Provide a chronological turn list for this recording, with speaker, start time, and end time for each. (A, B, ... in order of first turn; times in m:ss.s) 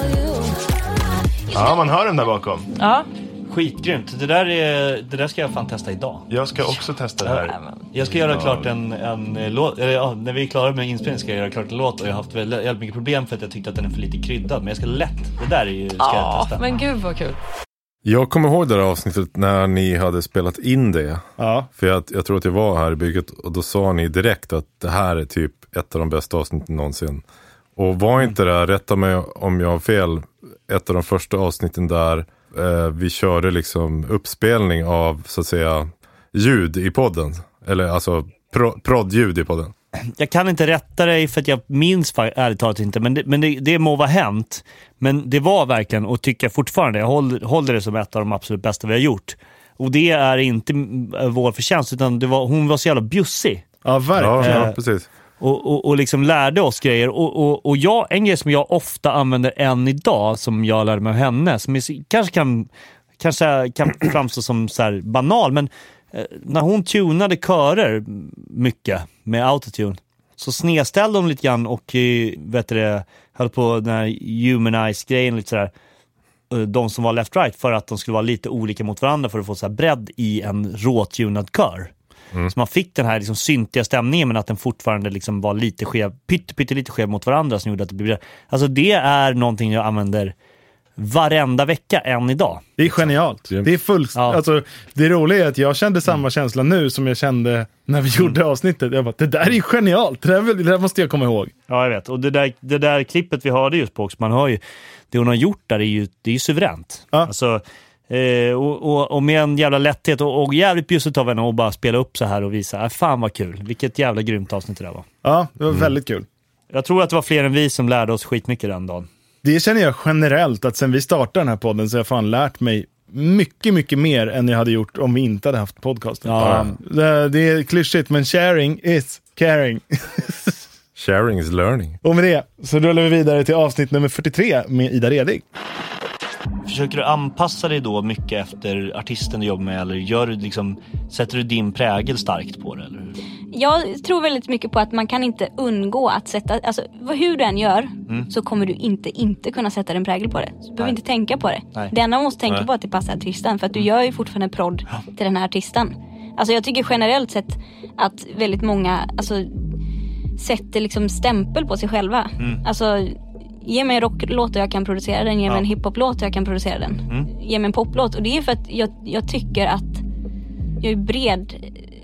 0:01.5-0:02.7 A
0:02.8-0:03.1 B
0:03.5-0:06.2 C
0:06.3-0:07.5 A
0:07.2-0:16.7 C
0:07.4-0:07.8 B
0:08.3-0:08.6 A
0:16.0-0:17.4 B
0:18.0-0:27.2 D
0:21.4-0:21.7 E
0:27.8-0:39.7 D
0:40.2-0:53.6 C
0:53.8-0:54.7 E
0:54.2-0:55.1 D
0:54.4-0:54.8 C
0:55.4-1:02.7 C
1:03.2-1:15.7 C
1:16.5-1:21.9 C
1:22.5-1:30.3 C
1:31.0-1:32.8 C
1:32.8-1:41.5 E
1:34.1-1:34.4 C
1:41.7-1:55.0 C
1:55.2-1:56.2 E
1:56.7-1:59.1 C
1:59.4-2:10.5 E
2:06.2-2:06.8 C
2:06.4-2:06.7 D
2:11.0-2:12.0 D
2:12.0-2:15.4 E
2:16.6-2:23.1 C
2:23.5-2:39.6 F
2:40.4-2:50.0 F
2:50.8-2:51.7 F